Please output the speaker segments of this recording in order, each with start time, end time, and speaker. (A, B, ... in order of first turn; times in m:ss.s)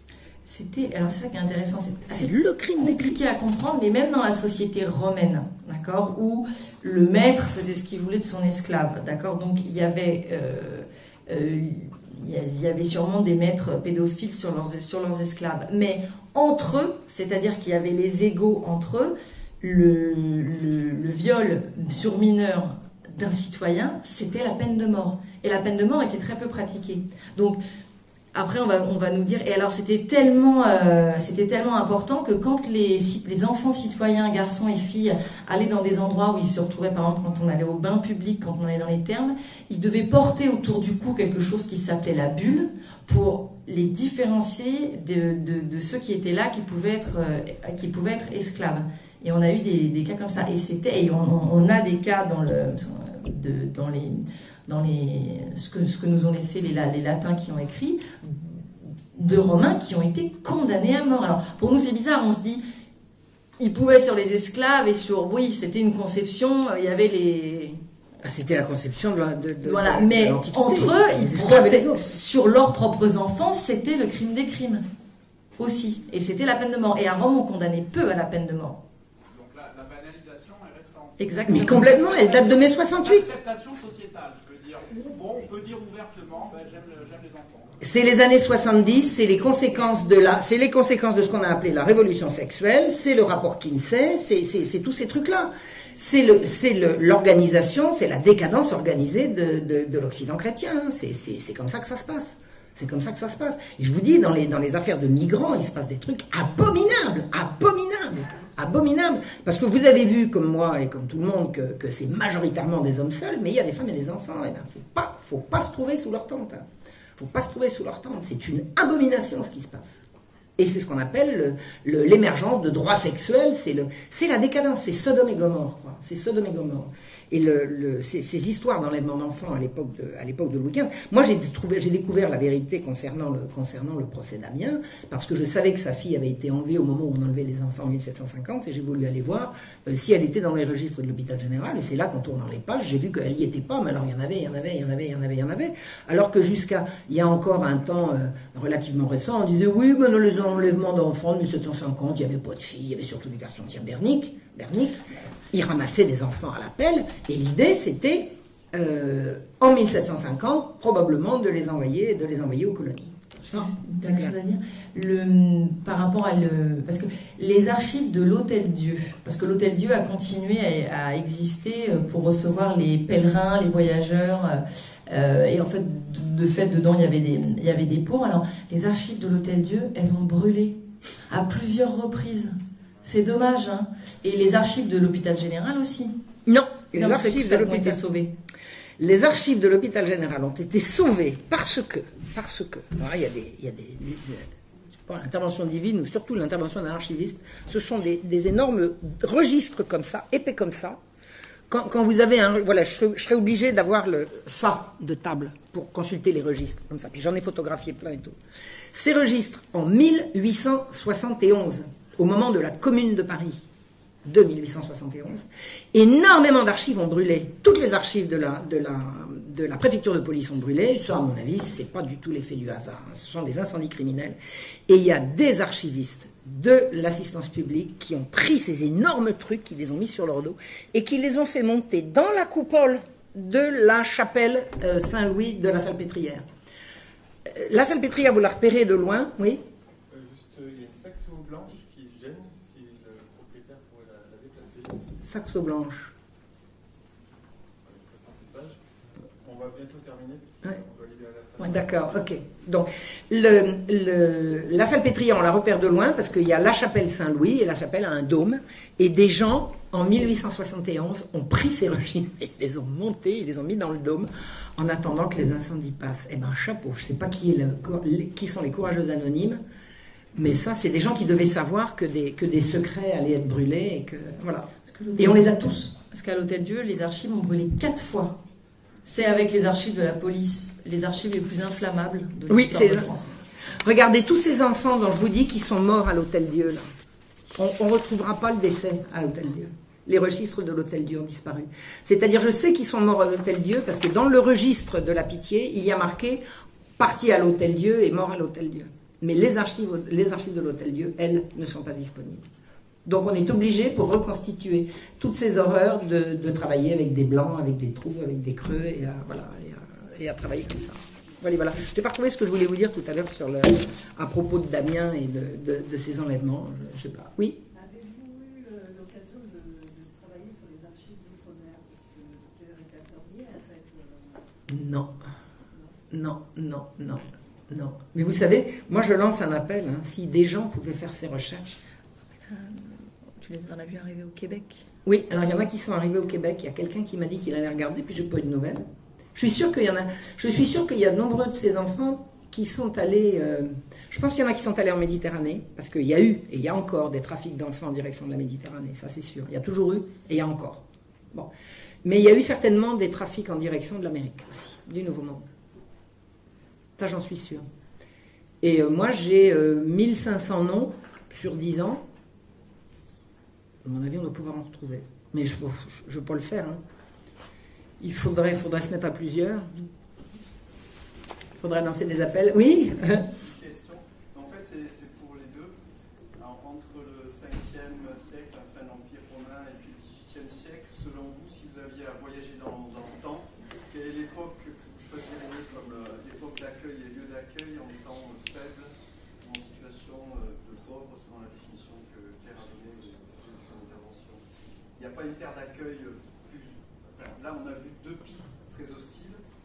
0:00.4-0:27.6 A
0:02.1-0:03.2 B
0:28.3-1:02.6 A
1:03.6-1:07.8 A
1:08.2-1:12.0 B
1:09.6-1:14.8 A
1:15.6-1:18.8 A
1:19.3-1:27.8 C
1:21.2-1:22.1 A
1:21.5-1:23.3 B
1:27.8-2:00.0 B
2:00.6-2:44.3 B
2:43.5-3:06.2 A
3:06.4-3:08.0 B
3:06.9-3:08.3 A
3:09.0-3:21.0 B
3:21.7-3:28.4 B
3:28.9-3:33.6 B
3:34.2-3:44.4 B
3:44.9-3:56.4 B
3:57.4-3:59.6 B
4:00.1-4:05.1 D
4:05.2-4:06.1 B
4:07.8-4:08.8 D
4:09.4-4:12.2 D
4:11.6-4:29.6 B
4:30.3-4:35.9 B
4:34.8-4:38.4 A
4:39.0-4:43.3 A
4:42.5-4:43.1 B
4:43.7-4:46.8 B
4:47.5-4:56.4 B
4:57.0-5:02.5 B
5:03.0-5:17.6 B
5:17.7-5:24.5 E
5:24.7-5:25.1 B
5:26.1-5:31.8 B
5:32.5-5:34.8 A
5:35.0-5:38.8 B
5:39.3-5:51.5 B
5:52.0-5:55.4 B
5:57.0-5:57.6 B
5:58.6-6:02.0 B
6:03.8-6:06.8 B
6:08.0-6:09.8 B
6:11.6-6:13.3 B
6:13.3-6:15.7 F
6:16.4-6:34.4 F
6:35.0-6:39.4 F